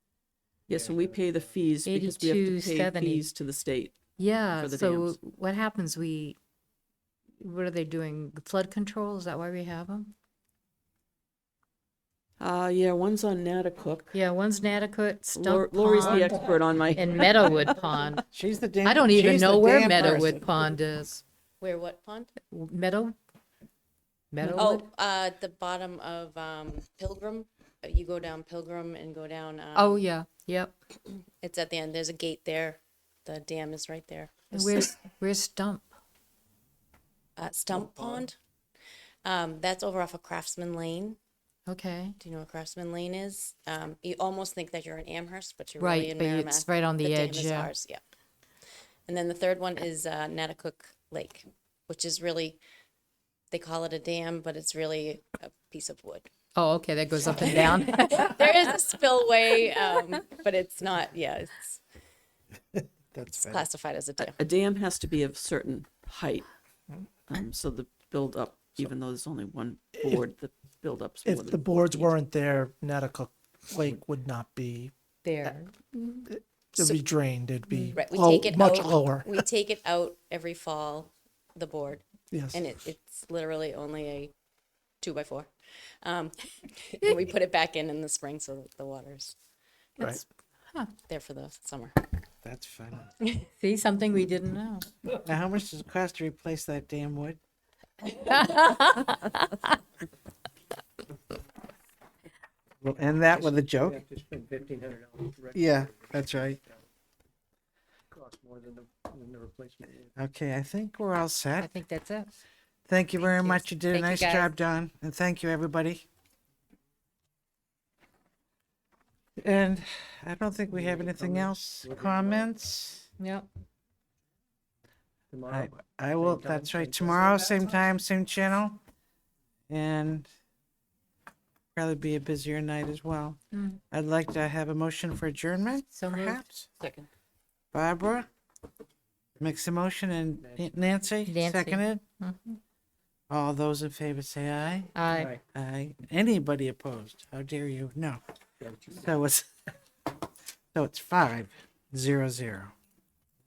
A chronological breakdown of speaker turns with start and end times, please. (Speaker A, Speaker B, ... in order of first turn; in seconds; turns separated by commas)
Speaker A: 0.7-4.0, Speaker B: 0.7-1.2, Speaker C: 1.9-3.2, Speaker C: 4.2-6.3, Speaker A: 4.5-5.2, Speaker C: 7.4-10.1, Speaker A: 12.4-14.1, Speaker C: 14.1-16.4, Speaker A: 15.3-17.7, Speaker C: 16.9-18.2, Speaker D: 18.3-20.4, Speaker C: 18.8-21.2, Speaker E: 21.6-22.3, Speaker C: 22.5-23.1, Speaker C: 24.3-24.8, Speaker E: 24.5-30.0, Speaker C: 29.7-30.8, Speaker E: 31.4-34.9, Speaker C: 34.5-35.9, Speaker E: 37.4-38.4, Speaker E: 39.2-41.2, Speaker C: 41.7-42.2, Speaker E: 42.2-48.0, Speaker C: 45.8-47.7, Speaker E: 49.1-52.6, Speaker E: 53.5-56.3, Speaker C: 56.5-58.7, Speaker E: 57.3-61.8, Speaker D: 63.1-63.6, Speaker E: 63.3-64.3, Speaker A: 64.2-66.5, Speaker A: 67.3-72.1, Speaker F: 71.2-74.9, Speaker C: 75.2-76.3, Speaker F: 76.3-79.4, Speaker C: 77.7-78.0, Speaker E: 78.0-84.3, Speaker F: 82.3-82.7, Speaker E: 85.0-85.5, Speaker E: 86.0-89.3, Speaker E: 91.0-92.0, Speaker D: 92.4-93.1, Speaker C: 93.6-94.9, Speaker D: 95.2-97.4, Speaker C: 98.1-99.5, Speaker D: 102.8-104.0, Speaker B: 103.4-106.0, Speaker D: 105.5-106.6, Speaker B: 108.1-110.1, Speaker D: 110.2-111.7, Speaker C: 111.6-112.3, Speaker D: 112.9-116.0, Speaker C: 113.2-114.5, Speaker D: 119.4-123.0, Speaker B: 120.7-122.5, Speaker C: 123.2-123.5, Speaker B: 125.3-127.5, Speaker D: 125.5-128.8, Speaker D: 129.7-130.3, Speaker D: 131.7-133.4, Speaker C: 133.5-133.8, Speaker D: 133.9-136.7, Speaker C: 135.9-136.4, Speaker A: 136.8-137.1, Speaker D: 137.7-138.3, Speaker D: 139.4-142.0, Speaker C: 141.2-142.6, Speaker D: 143.3-148.2, Speaker C: 144.9-145.3, Speaker D: 148.8-149.5, Speaker D: 150.7-152.7